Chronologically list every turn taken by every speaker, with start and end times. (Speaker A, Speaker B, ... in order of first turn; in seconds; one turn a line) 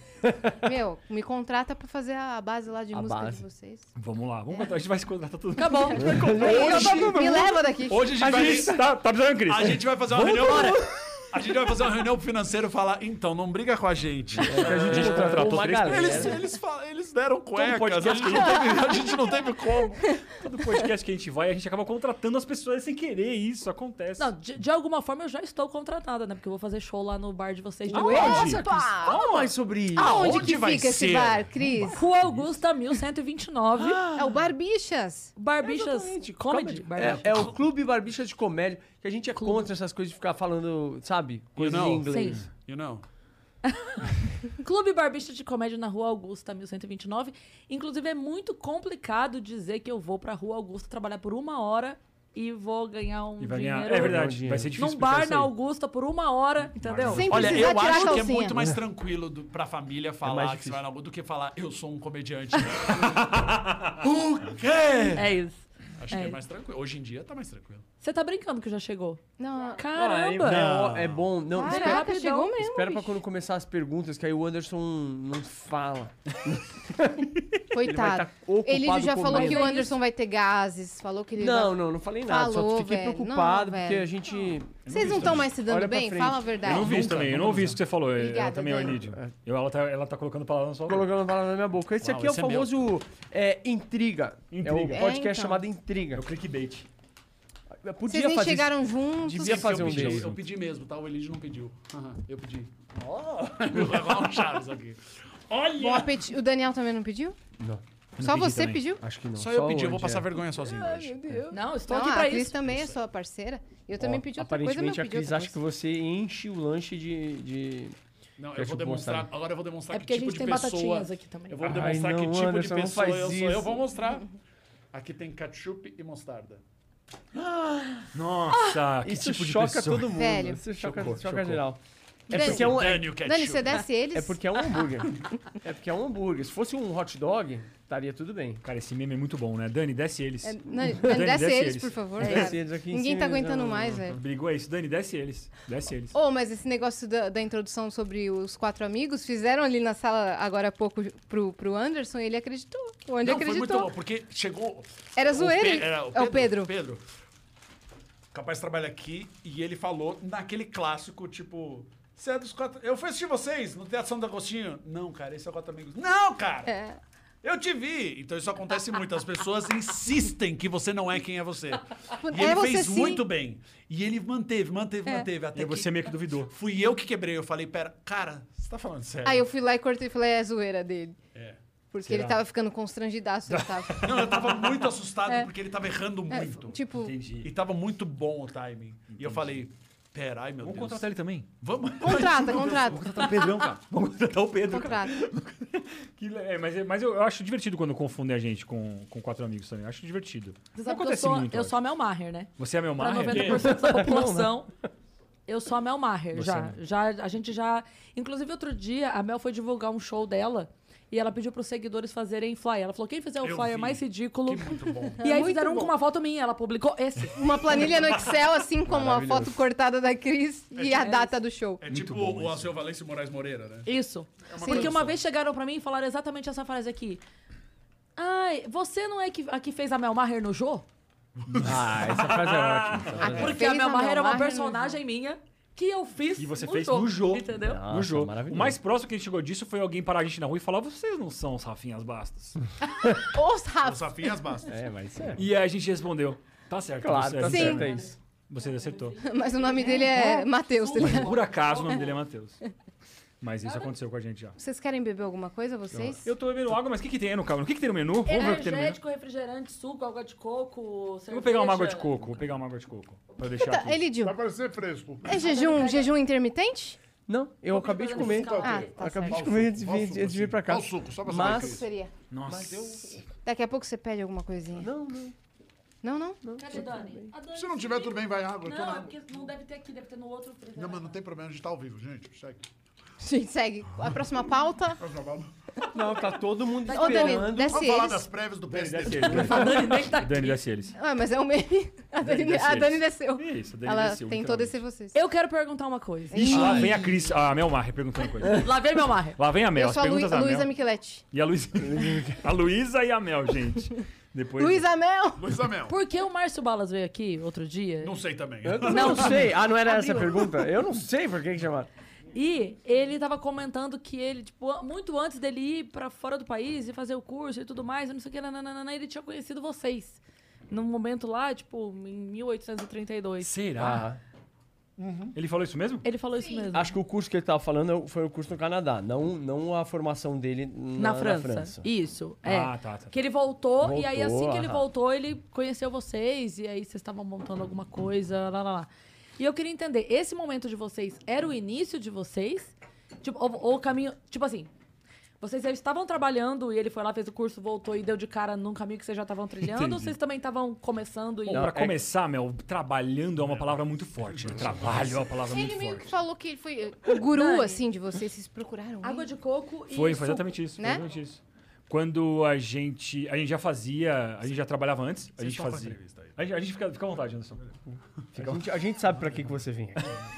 Speaker A: 0.2-0.5
Speaker B: 0.6-3.9
Speaker A: 2.9-3.4
Speaker C: 4.0-7.6
Speaker D: 5.6-6.7
Speaker A: 6.0-7.0
Speaker B: 6.2-8.2
Speaker E: 6.4-7.2
Speaker E: 7.9-8.8
Speaker A: 8.2-8.8
Speaker C: 8.2-10.8
Speaker E: 9.4-20.1
Speaker A: 10.2-10.8
Speaker C: 14.4-16.4
Speaker A: 14.4-16.4
Speaker C: 17.5-19.1
Speaker C: 20.3-24.3
Speaker D: 24.2-28.5
Speaker C: 27.9-28.6
Speaker A: 27.9-30.3
Speaker B: 27.9-32.0
Speaker E: 29.9-32.0
Speaker D: 31.9-34.0
Speaker C: 34.0-34.3
Speaker B: 34.1-35.3
Speaker D: 35.4-37.4
Speaker A: 35.6-42.4
Speaker D: 39.4-39.7
Speaker E: 41.6-43.0
Speaker D: 42.1-42.4
Speaker D: 43.7-58.1
Speaker C: 53.4-55.5
Speaker A: 54.0-54.7
Speaker E: 56.8-65.4
Speaker C: 56.9-57.5
Speaker B: 57.1-58.6
Speaker A: 60.2-60.8
Speaker C: 62.9-64.0
Speaker D: 65.1-66.4
Speaker E: 66.0-67.8
Speaker D: 68.0-70.7
Speaker B: 69.4-69.8
Speaker A: 69.9-79.8
Speaker E: 70.4-71.2
Speaker B: 71.5-73.1
Speaker D: 71.6-72.5
Speaker B: 77.7-84.1
Speaker D: 79.3-80.0
Speaker A: 81.4-87.8
Speaker C: 84.8-85.5
Speaker B: 84.9-87.1
Speaker C: 86.6-91.1
Speaker E: 86.8-87.5
Speaker B: 88.1-89.0
Speaker A: 90.9-96.2
Speaker E: 92.0-92.7
Speaker C: 94.5-95.1
Speaker B: 94.9-95.6
Speaker C: 96.1-96.9
Speaker A: 97.8-100.4
Speaker B: 98.1-100.2
Speaker E: 99.4-106.2
Speaker B: 105.8-107.3
Speaker C: 108.2-108.8
Speaker B: 108.2-109.0
Speaker A: 109.0-110.4
Speaker E: 109.3-111.2
Speaker B: 110.8-115.6
Speaker D: 111.5-112.6
Speaker E: 112.7-113.0
Speaker A: 114.0-118.0
Speaker E: 118.4-124.3
Speaker A: 118.5-119.3
Speaker D: 119.9-121.6
Speaker A: 121.6-123.8
Speaker E: 124.9-126.6
Speaker C: 127.4-130.2
Speaker A: 129.0-133.1
Speaker B: 130.1-130.6
Speaker C: 130.7-131.6
Speaker B: 132.3-134.4
Speaker E: 132.3-133.8
Speaker A: 134.1-138.6
Speaker C: 138.6-142.5
Speaker B: 140.4-144.2
Speaker A: 142.2-144.0
Speaker C: 144.0-146.1
Speaker B: 146.1-153.9
Speaker E: 153.2-157.0
Speaker B: 155.2-156.7
Speaker E: 158.3-166.7
Speaker B: 166.7-167.0
Speaker E: 167.4-179.5
Speaker B: 172.2-173.2
Speaker C: 175.5-176.5
Speaker B: 179.2-181.2
Speaker B: 181.9-184.4
Speaker C: 182.0-182.4
Speaker C: 183.5-184.0
Speaker E: 184.0-186.8
Speaker B: 186.3-187.1
Speaker C: 186.9-187.5
Speaker E: 187.4-191.1
Speaker C: 189.1-189.6
Speaker C: 190.6-191.5
Speaker E: 191.6-192.9
Speaker B: 192.0-193.6
Speaker C: 192.5-201.8
Speaker B: 194.6-195.2
Speaker D: 200.7-204.7
Speaker C: 202.6-203.9
Speaker A: 203.3-204.6
Speaker D: 205.5-217.5
Speaker C: 206.3-206.8
Speaker E: 213.4-215.2
Speaker B: 215.2-215.9
Speaker B: 217.3-221.8
Speaker A: 218.9-219.6
Speaker E: 220.7-221.2
Speaker D: 221.0-221.4
Speaker E: 221.8-223.9
Speaker C: 221.8-222.7
Speaker D: 223.8-227.2
Speaker E: 224.5-225.2
Speaker B: 224.6-224.9
Speaker D: 228.2-230.8
Speaker E: 231.4-231.7
Speaker C: 231.5-233.6
Speaker A: 231.6-233.6
Speaker B: 233.3-235.0
Speaker D: 233.3-237.8
Speaker C: 236.4-242.6
Speaker A: 237.6-238.8
Speaker B: 243.1-244.6
Speaker E: 243.8-244.7
Speaker A: 244.7-245.4
Speaker C: 245.4-247.9
Speaker A: 247.0-248.1
Speaker B: 247.4-247.9
Speaker D: 247.8-252.1
Speaker C: 248.5-249.2
Speaker B: 249.2-251.5
Speaker C: 251.0-252.6
Speaker C: 253.4-254.6
Speaker D: 253.6-253.9
Speaker B: 254.6-256.3
Speaker A: 255.9-256.2
Speaker C: 256.2-259.0
Speaker D: 258.2-262.1
Speaker C: 261.3-264.1
Speaker B: 263.6-264.4
Speaker E: 264.2-265.3
Speaker B: 265.2-267.0
Speaker D: 265.3-266.1
Speaker A: 267.3-271.8
Speaker D: 267.7-269.0
Speaker E: 268.1-271.9
Speaker B: 268.6-269.6
Speaker B: 271.3-272.1
Speaker C: 272.3-273.0
Speaker A: 272.5-273.2
Speaker B: 273.4-274.9
Speaker A: 274.8-275.3
Speaker B: 276.0-276.9
Speaker A: 276.4-277.3
Speaker D: 276.6-281.1
Speaker E: 277.5-279.2
Speaker E: 280.8-282.6
Speaker B: 283.2-285.0
Speaker E: 285.0-285.5
Speaker A: 285.9-287.9
Speaker D: 286.8-287.5
Speaker B: 286.9-288.3
Speaker E: 287.5-289.7
Speaker C: 288.7-290.9
Speaker D: 289.4-290.6
Speaker B: 290.9-295.2
Speaker C: 292.2-294.8
Speaker D: 295.1-296.9
Speaker B: 296.3-297.2
Speaker C: 296.4-298.8
Speaker A: 296.5-296.9
Speaker D: 298.5-299.4
Speaker C: 299.4-300.7
Speaker B: 299.7-301.2
Speaker C: 301.3-304.9
Speaker A: 301.8-302.4
Speaker B: 304.6-305.5
Speaker E: 305.4-305.9
Speaker D: 305.9-308.1
Speaker E: 308.0-309.6
Speaker A: 308.6-311.9
Speaker D: 308.9-310.3
Speaker D: 312.3-323.5
Speaker C: 323.4-324.0
Speaker A: 323.8-324.2
Speaker E: 325.0-325.3
Speaker C: 325.3-326.0
Speaker D: 326.0-326.9
Speaker B: 326.4-326.7
Speaker A: 326.7-331.9
Speaker D: 331.0-344.7
Speaker C: 332.4-333.1
Speaker A: 333.8-334.9
Speaker D: 345.4-351.8
Speaker C: 349.6-350.1
Speaker C: 351.5-356.1
Speaker A: 351.5-352.0
Speaker E: 353.4-355.2
Speaker B: 355.4-359.3
Speaker D: 357.3-357.8
Speaker D: 359.0-360.5
Speaker C: 359.9-367.7
Speaker B: 360.8-361.0
Speaker E: 365.4-366.4
Speaker A: 368.3-370.1
Speaker C: 368.4-368.6